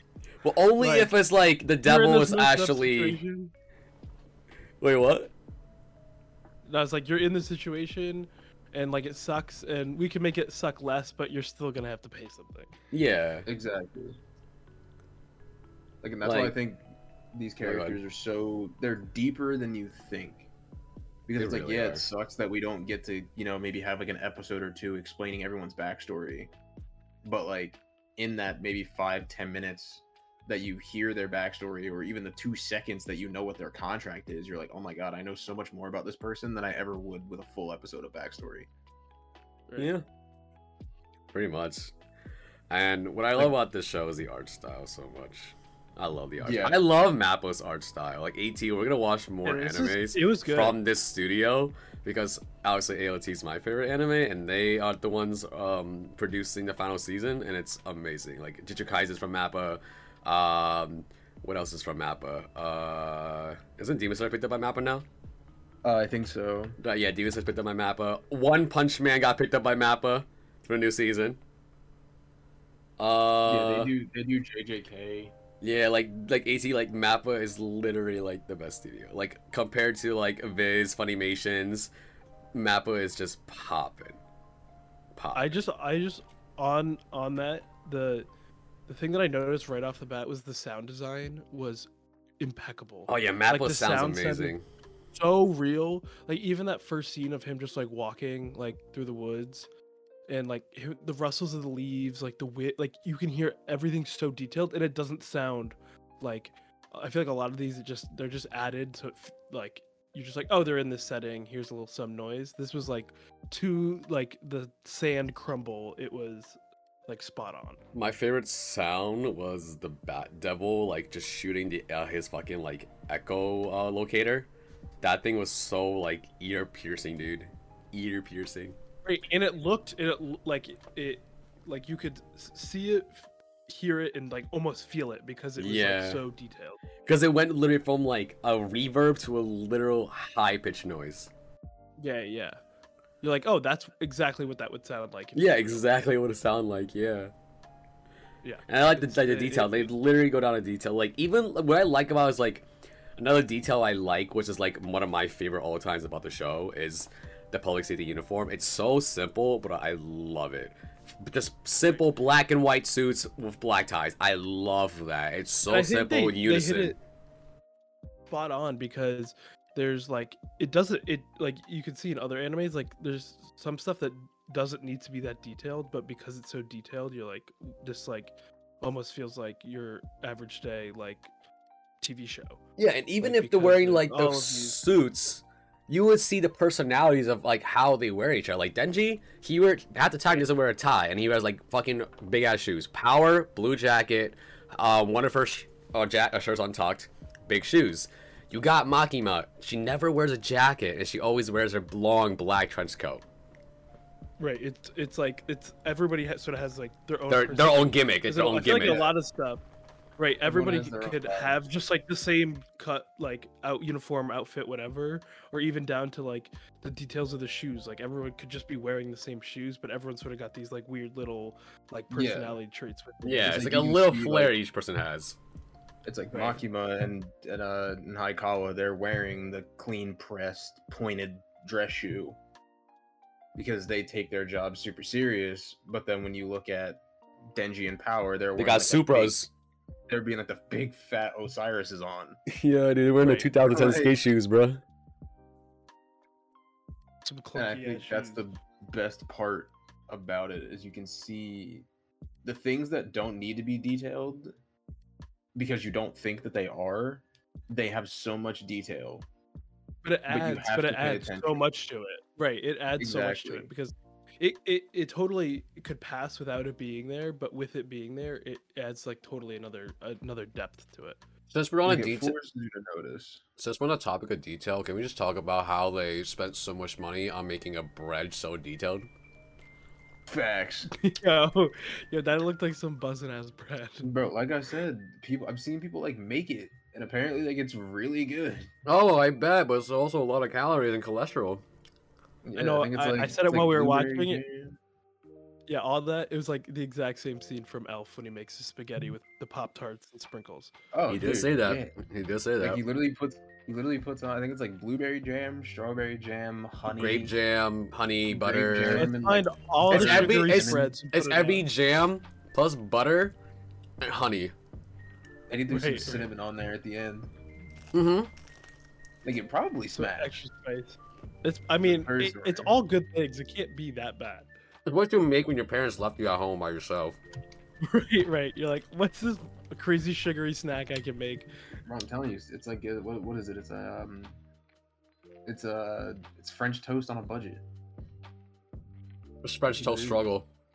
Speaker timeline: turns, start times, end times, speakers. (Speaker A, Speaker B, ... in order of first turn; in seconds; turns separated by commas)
Speaker A: 0.4-3.2, Speaker B: 0.8-1.1, Speaker B: 1.8-3.5, Speaker A: 4.8-5.3, Speaker B: 6.6-12.7, Speaker A: 12.9-13.5, Speaker C: 13.4-14.2, Speaker C: 16.0-20.5, Speaker A: 16.2-16.6, Speaker A: 17.6-18.0, Speaker C: 21.3-26.5, Speaker A: 21.4-22.0, Speaker C: 27.2-38.7, Speaker A: 39.8-40.0, Speaker A: 41.3-41.9, Speaker A: 42.7-65.0, Speaker C: 46.4-46.8, Speaker B: 49.4-50.8, Speaker C: 65.8-66.8, Speaker A: 66.8-71.4, Speaker A: 73.0-73.9, Speaker C: 73.4-75.3, Speaker A: 75.6-81.9, Speaker A: 82.5-84.2, Speaker A: 85.2-85.6, Speaker B: 85.3-88.3, Speaker B: 88.9-91.9, Speaker B: 92.4-94.5, Speaker A: 93.1-94.6, Speaker B: 95.1-99.7, Speaker B: 100.3-117.8, Speaker A: 117.9-124.5, Speaker A: 125.0-128.8, Speaker B: 129.1-136.8, Speaker A: 135.6-136.2, Speaker A: 137.1-141.3, Speaker B: 142.0-142.6, Speaker B: 143.2-145.8, Speaker A: 145.3-147.3, Speaker B: 148.4-149.9, Speaker A: 148.7-166.9, Speaker B: 165.7-167.0, Speaker B: 168.3-181.3, Speaker B: 182.0-182.6, Speaker A: 182.8-203.2, Speaker B: 183.2-184.8, Speaker B: 204.4-209.6, Speaker A: 207.3-209.1, Speaker C: 208.7-209.1, Speaker B: 210.2-223.5, Speaker C: 210.4-211.6, Speaker C: 222.1-222.6, Speaker A: 223.2-225.4, Speaker C: 223.3-224.6, Speaker C: 226.0-232.4, Speaker B: 226.3-226.6, Speaker C: 233.5-239.4, Speaker A: 238.6-239.5, Speaker C: 240.1-242.4, Speaker A: 242.5-244.8, Speaker B: 243.2-243.5, Speaker C: 243.7-244.2, Speaker B: 247.2-248.4, Speaker C: 247.5-251.9, Speaker C: 252.4-254.5, Speaker C: 255.5-259.2, Speaker B: 260.0-271.2, Speaker C: 260.3-261.6, Speaker C: 263.0-263.7, Speaker A: 271.5-272.3, Speaker C: 271.9-273.4, Speaker A: 273.6-279.1, Speaker C: 280.3-280.9, Speaker B: 280.9-284.1, Speaker C: 284.0-288.7, Speaker A: 288.9-291.6, Speaker C: 292.4-294.8, Speaker B: 292.6-294.4, Speaker B: 295.7-300.7, Speaker C: 300.9-301.9, Speaker A: 301.1-302.8, Speaker C: 302.6-307.3, Speaker A: 306.9-309.1, Speaker C: 308.3-310.9, Speaker B: 308.9-311.6, Speaker A: 309.9-313.3, Speaker A: 314.0-314.5, Speaker C: 315.5-317.3, Speaker B: 315.7-316.2, Speaker A: 317.9-318.3, Speaker C: 319.2-320.4, Speaker B: 319.9-324.5, Speaker C: 321.8-322.7, Speaker A: 324.9-327.2, Speaker B: 327.8-331.5, Speaker C: 331.9-334.4, Speaker C: 335.4-337.6, Speaker A: 339.4-340.4, Speaker C: 339.8-340.2